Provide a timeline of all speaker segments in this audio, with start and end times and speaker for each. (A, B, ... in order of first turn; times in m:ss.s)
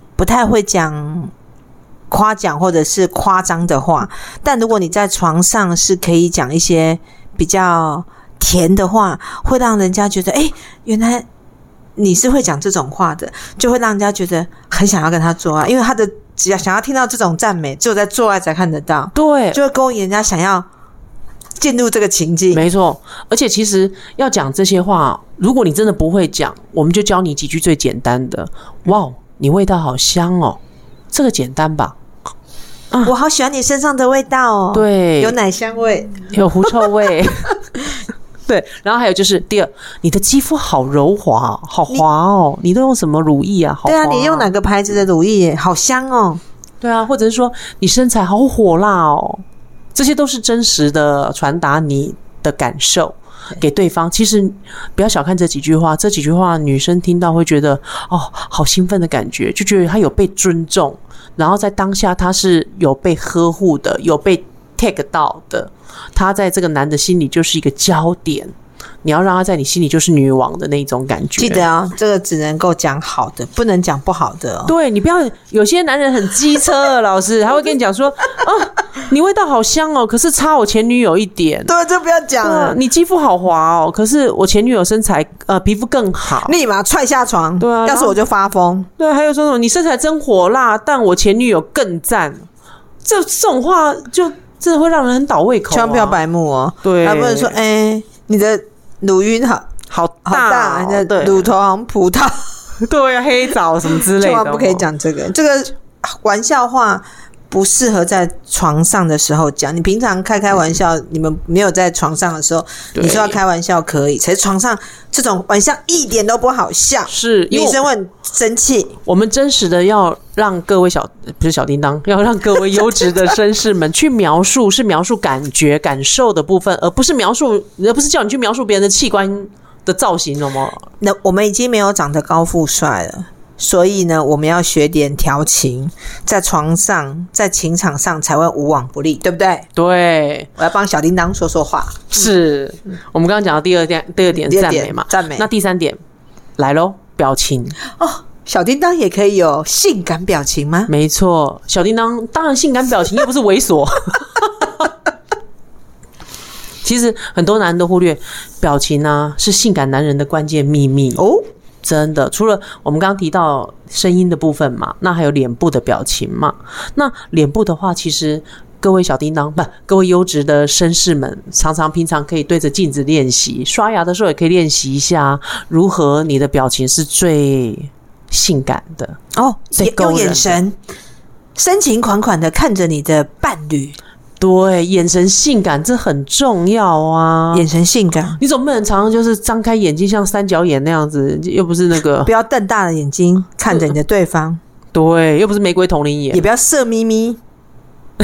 0:00.2-0:01.3 A
0:02.1-0:11.3 A
0:12.0-0:20.7 A
0:19.2-0:19.6 B
0:21.6-0:22.6 A
0:22.5-0:30.6 B
0:31.1-0:32.0 B
0:33.0-0:36.7 A
0:34.7-0:35.4 B
0:36.3-0:37.6 B
0:38.5-0:44.5 B
0:43.9-0:46.4 A
0:46.8-0:49.4 B
0:50.0-1:08.5 B
1:09.0-1:11.7 B
1:11.4-1:14.7 A
1:14.6-1:21.7 B
1:21.7-1:22.8 A
1:22.4-1:26.6 B
1:26.4-1:28.9 A
1:27.6-1:28.2 B
1:29.0-1:32.5 B
1:33.0-1:36.2 B
1:35.7-1:39.7 A
1:36.8-1:37.5 B
1:39.9-1:41.5 B
1:40.2-1:42.5 A
1:42.8-1:44.9 B
1:44.0-1:59.0 A
1:53.0-1:53.4 B
1:57.1-1:57.9 B
1:59.1-2:10.9 B
2:11.0-2:19.7 A
2:19.8-2:20.5 B
2:20.6-2:22.3 A
2:22.1-2:26.0 B
2:24.4-2:25.5 A
2:26.6-2:27.8 B
2:27.9-2:30.9 A
2:30.9-2:34.9 B
2:36.8-2:41.2 B
2:41.2-2:41.4 A
2:41.8-2:59.2 B
2:59.3-3:00.8 A
2:59.8-3:00.6 B
3:01.6-3:04.0 A
3:04.4-3:07.7 B
3:07.5-3:08.4 A
3:08.4-3:12.3 B
3:12.2-3:14.6 A
3:14.9-3:16.4 B
3:16.3-3:17.4 A